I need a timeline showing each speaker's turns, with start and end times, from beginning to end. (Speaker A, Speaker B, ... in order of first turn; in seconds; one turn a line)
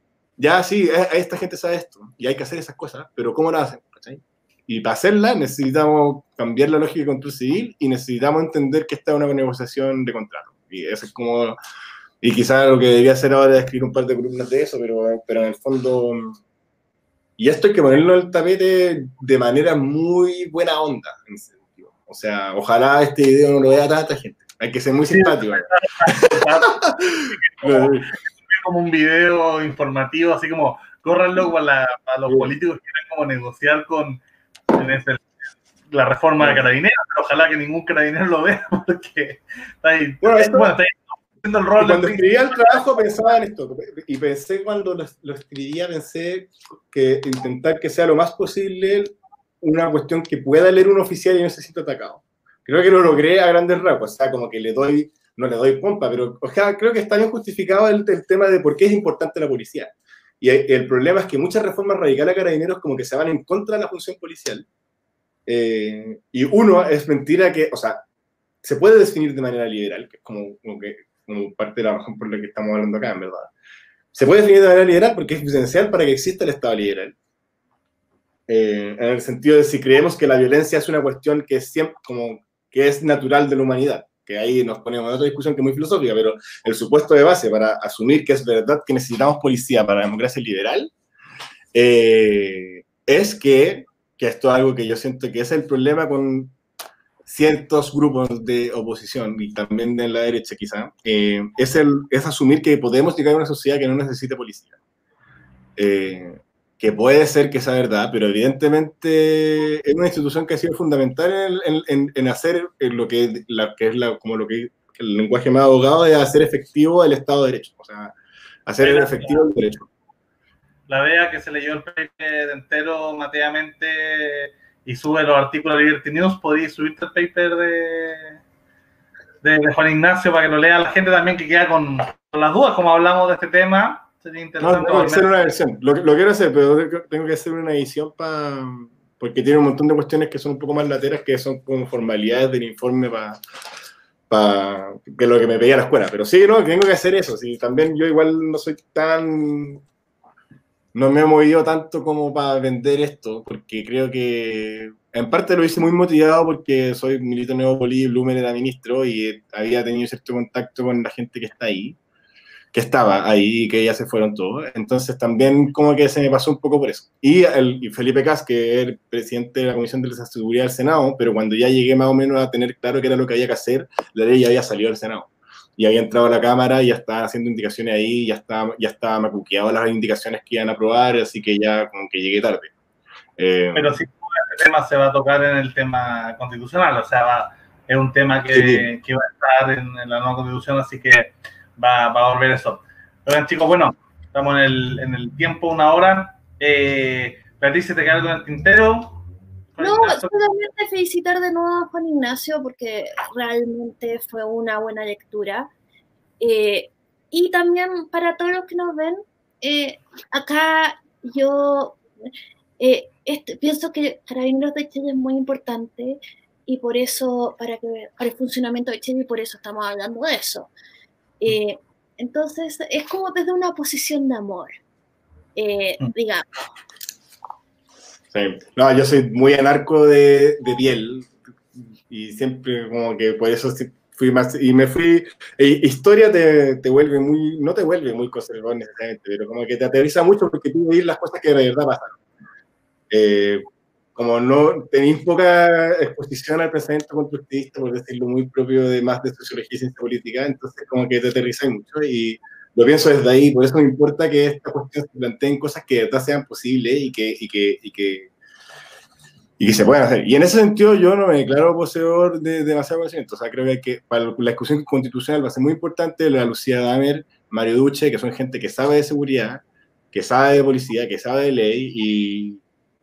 Speaker A: 0.4-11.6
Speaker A: 12.2-16.4
Speaker A: 17.4-28.1
Speaker B: 25.1-34.2
Speaker A: 32.3-32.5
Speaker B: 34.7-35.3
Speaker B: 35.9-42.9
Speaker A: 40.2-40.7
Speaker A: 41.8-64.7
Speaker A: 65.5-68.0
Speaker A: 68.6-73.5
Speaker A: 74.1-77.2
Speaker A: 78.5-90.9
Speaker A: 91.7-96.5
Speaker A: 97.2-104.7
Speaker A: 105.8-118.1
Speaker A: 118.7-119.9
Speaker B: 118.8-119.4
Speaker B: 120.9-128.4
Speaker B: 129.4-135.3
Speaker A: 134.6-143.4
Speaker A: 144.3-149.8
Speaker A: 150.9-162.0
Speaker A: 162.7-182.7
Speaker A: 183.4-184.0
Speaker B: 183.7-199.2
Speaker A: 188.5-188.9
Speaker B: 199.7-200.3
Speaker C: 199.8-205.7
Speaker C: 206.4-212.0
Speaker C: 212.8-220.7
Speaker C: 221.4-224.8
Speaker C: 225.6-226.4
Speaker A: 228.3-242.2
Speaker A: 243.1-243.6
Speaker A: 244.2-258.3
Speaker A: 259.6-272.6